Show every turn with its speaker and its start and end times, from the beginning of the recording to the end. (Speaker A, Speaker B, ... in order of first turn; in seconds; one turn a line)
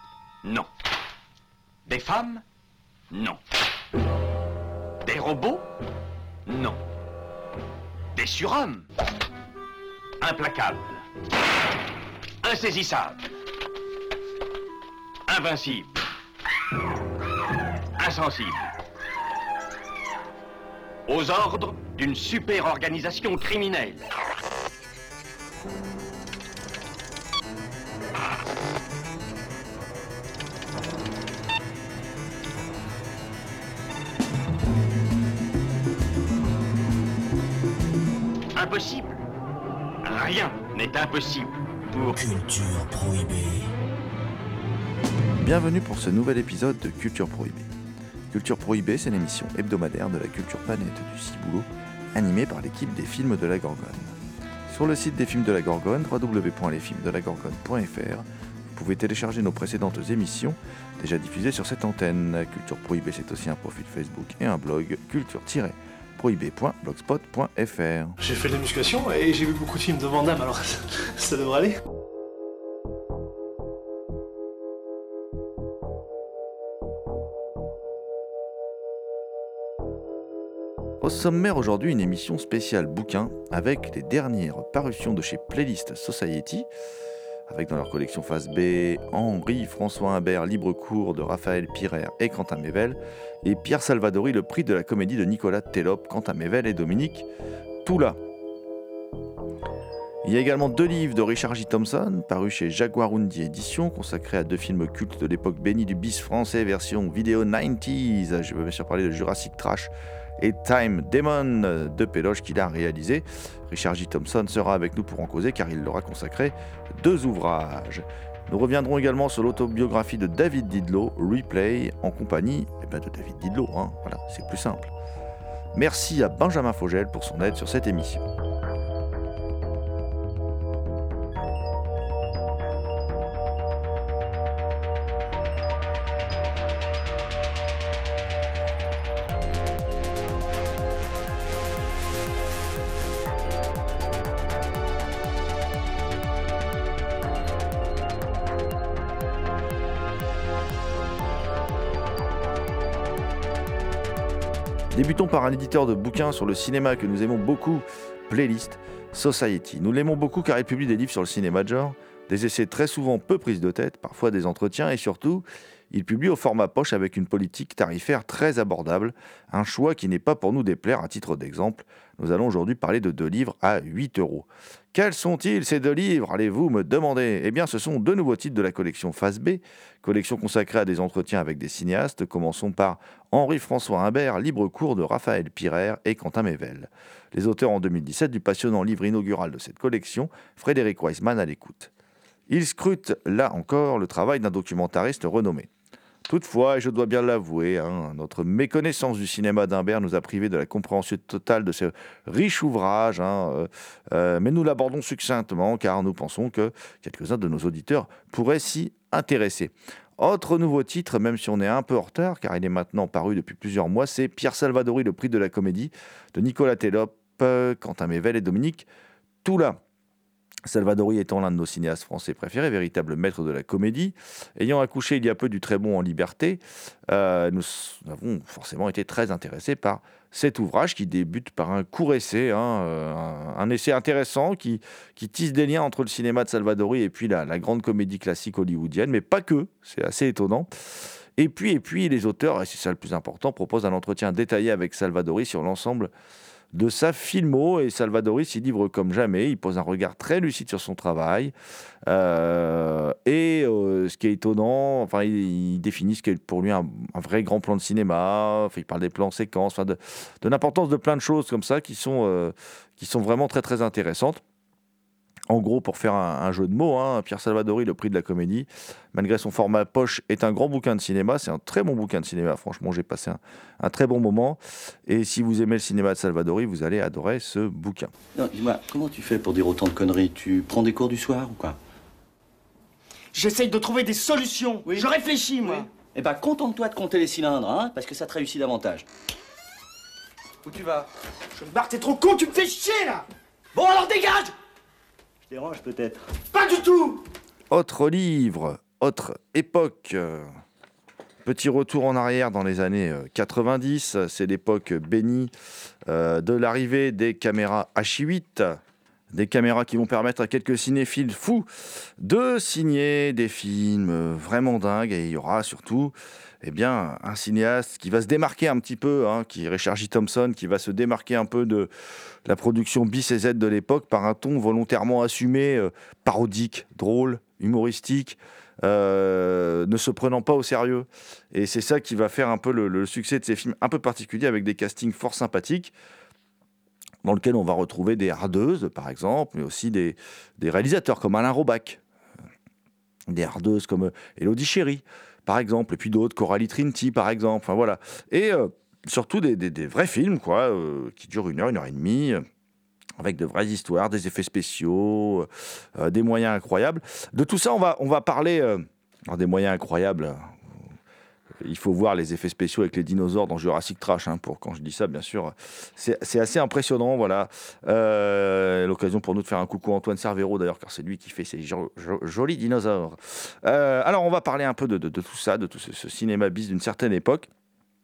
Speaker A: 0.4-0.7
Speaker A: 1.9-2.4
Speaker A: 3.1-3.4
Speaker A: 5.0-5.7
Speaker A: 6.5-6.8
Speaker A: 8.2-8.9
Speaker A: 10.2-11.0
Speaker A: 12.4-13.2
Speaker A: 15.3-15.9
Speaker A: 18.0-18.6
Speaker A: 21.1-24.0
Speaker A: 38.5-39.2
Speaker A: 40.0-42.3
Speaker B: 42.2-43.7
Speaker C: 45.4-47.7
Speaker C: 48.3-54.2
Speaker C: 54.7-68.2
Speaker D: 68.2-71.8
Speaker C: 81.0-86.7
Speaker C: 87.5-97.3
Speaker C: 97.8-98.2
Speaker C: 100.2-124.9
Speaker C: 125.7-128.2
Speaker C: 154.9-191.9
Speaker C: 192.5-195.7
Speaker C: 196.3-218.9
Speaker C: 219.4-219.8
Speaker C: 220.7-246.1
Speaker C: 246.7-251.5
Speaker C: 252.1-264.4
Speaker C: 265.5-278.1
Speaker B: 278.4-281.8
Speaker E: 283.3-285.9
Speaker B: 285.7-289.1
Speaker E: 290.6-293.2
Speaker B: 293.8-294.3
Speaker E: 293.8-294.5
Speaker B: 295.5-296.3
Speaker E: 296.5-297.2
Speaker C: 297.7-300.5
Speaker C: 301.4-305.5
Speaker C: 306.1-308.8
Speaker C: 309.3-321.9
Speaker C: 322.4-335.9
Speaker C: 337.2-342.0
Speaker C: 343.3-352.4
Speaker C: 353.2-360.6
Speaker C: 361.6-377.5